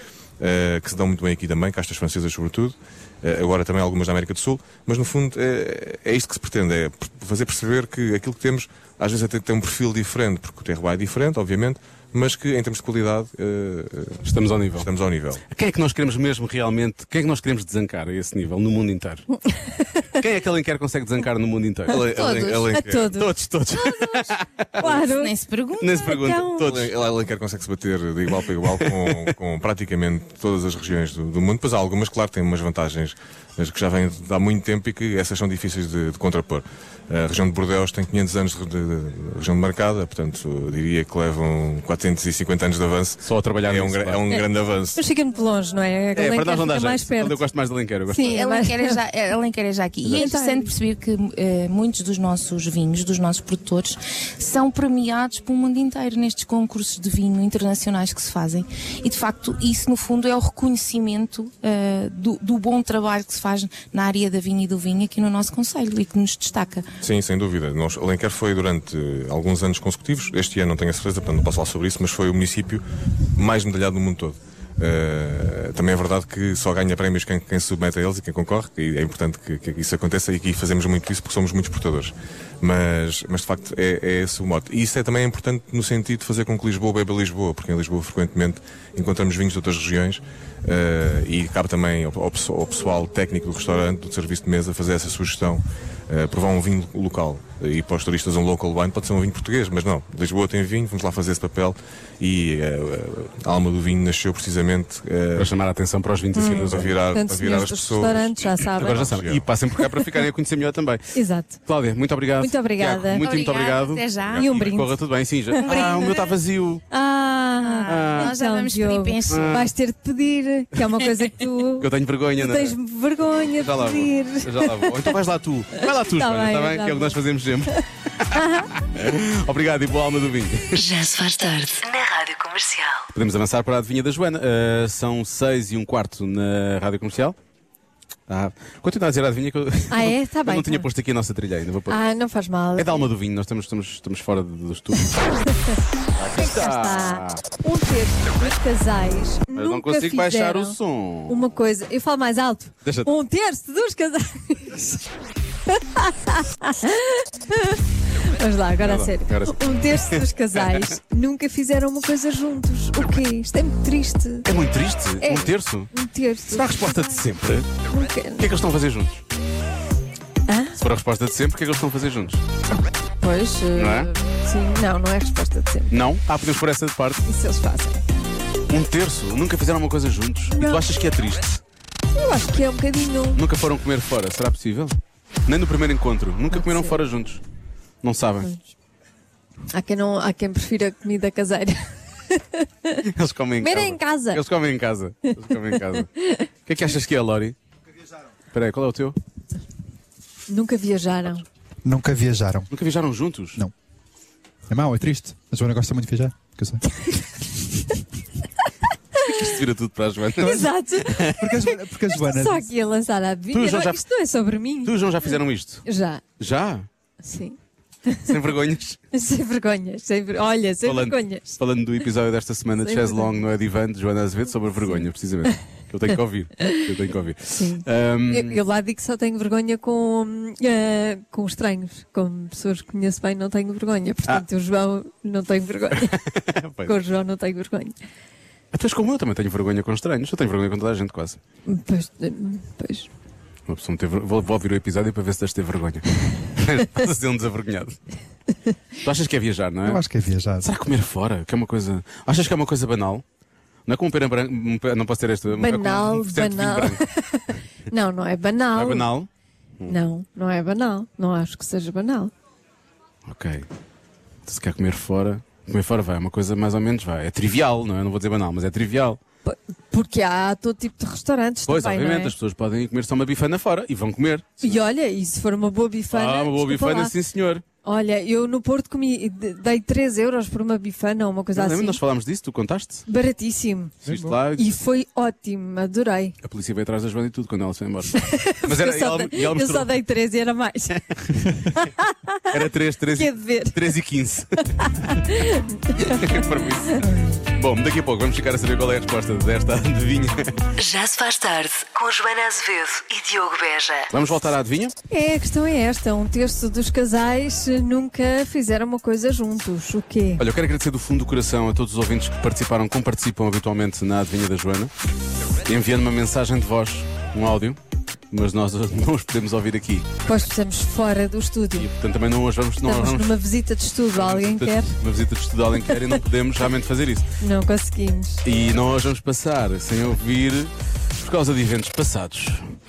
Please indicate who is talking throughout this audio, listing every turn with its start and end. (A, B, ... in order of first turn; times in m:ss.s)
0:00.4-0:14.2 A
0:14.2-0:14.9 B
0:14.8-0:15.4 A
0:15.5-0:19.3 B
0:19.5-0:20.1 C
0:20.1-0:22.0 B
0:21.9-0:23.2 A
0:22.0-0:22.7 D
0:22.7-0:25.3 C
0:23.1-0:24.9 B
0:24.8-0:26.2 D
0:25.8-0:26.9 B
0:26.0-0:26.7 C
0:26.6-0:45.0 A
0:28.6-0:29.3 B
0:43.2-0:44.2 B
0:44.3-0:47.5 C
0:46.1-0:48.4 B
0:48.0-0:49.0 C
0:48.2-1:06.9 D
0:50.2-0:50.7 C
1:07.0-1:12.8 A
1:13.4-1:45.5 A
1:45.4-1:46.9 B
1:46.3-1:49.1 C
1:46.4-1:49.4 A
1:48.8-1:56.8 B
1:49.7-1:50.0 C
1:51.1-1:51.6 C
1:52.4-1:53.3 C
1:53.2-1:54.5 D
1:54.2-1:54.5 A
1:54.4-1:56.0 C
1:55.6-1:56.3 D
1:56.9-2:05.1 C
1:57.6-1:59.7 D
1:57.8-1:58.3 B
1:59.3-1:59.7 B
2:01.8-2:02.8 B
2:03.6-2:10.8 B
2:05.7-2:07.2 C
2:08.3-2:08.7 C
2:10.8-2:13.0 E
2:13.1-2:17.4 B
2:18.3-2:22.0 B
2:19.9-2:20.9 C
2:21.9-2:23.1 C
2:22.8-2:25.3 B
2:26.1-2:27.4 B
2:26.4-2:30.8 C
2:29.5-2:31.4 B
2:31.3-2:35.0 C
2:32.8-2:33.1 B
2:35.7-2:44.5 C
2:38.8-2:41.0 B
2:44.4-2:45.9 B
2:45.2-2:47.0 C
2:46.5-2:47.7 B
2:47.9-2:48.5 C
2:48.4-2:49.2 B
2:50.5-2:50.8 C
2:50.8-2:52.4 B
2:53.2-2:55.9 C
2:53.7-2:54.1 B
2:55.9-2:57.2 B
2:57.2-2:58.0 C
2:58.7-3:01.6 B
3:00.5-3:00.8 C
3:02.1-3:03.4 C
3:03.3-3:05.0 B
3:05.5-3:07.4 B
3:06.5-3:07.0 C
3:08.0-3:08.5 B
3:09.7-3:13.0 C
3:13.1-3:16.1 B
3:13.6-3:14.4 C
3:15.9-3:16.5 C
3:16.6-3:17.6 B
3:18.5-3:19.2 B
3:20.5-3:21.4 C
3:21.8-3:22.7 F
3:22.7-3:23.6 B
3:24.7-3:26.8 F
3:27.1-3:27.8 C
3:29.2-3:31.4 B
3:30.4-3:36.2 C
3:31.3-3:32.7 F
3:33.5-3:34.0 B
3:34.8-3:35.8 B
3:36.4-3:36.9 B
3:37.2-3:38.4 C
3:38.2-3:39.0 B
3:39.1-3:41.5 C
3:40.8-3:48.6 B
3:42.8-3:43.4 C
3:46.1-3:46.8 C
3:47.5-3:58.0 C
3:56.0-3:56.9 B
3:58.7-4:01.4 B
4:01.7-4:03.1 C
4:03.7-4:08.0 B
4:09.0-4:10.0 B
4:09.8-4:10.7 F
4:10.6-4:13.2 B
4:13.9-4:17.0 B
4:15.5-4:19.1 C
4:18.7-4:19.3 B
4:19.9-4:22.3 C
4:23.2-4:23.6 B
4:24.4-4:29.2 B
4:29.4-4:32.3 C
4:31.7-4:34.8 B
4:34.6-4:37.1 C
4:36.1-4:37.6 B
4:37.8-4:42.0 C
4:41.5-4:43.0 B
4:43.1-4:46.4 C
4:44.0-4:44.7 B
4:46.4-4:49.9 B
4:48.1-4:52.4 C
4:50.9-4:51.8 B
4:52.5-4:55.1 B
4:53.1-4:53.9 C
4:54.8-4:56.5 C
4:56.0-5:00.5 B
5:00.8-5:04.1 E
5:04.1-5:04.9 B
5:05.1-5:10.4 C
5:10.4-5:14.9 B
5:15.6-5:17.8 B
5:18.3-5:20.1 B
5:20.2-5:21.9 C
5:21.7-5:23.3 B
5:22.8-5:24.9 C
5:24.1-5:27.3 B
5:25.9-5:26.2 C
5:27.4-5:28.4 C
5:28.4-5:32.8 B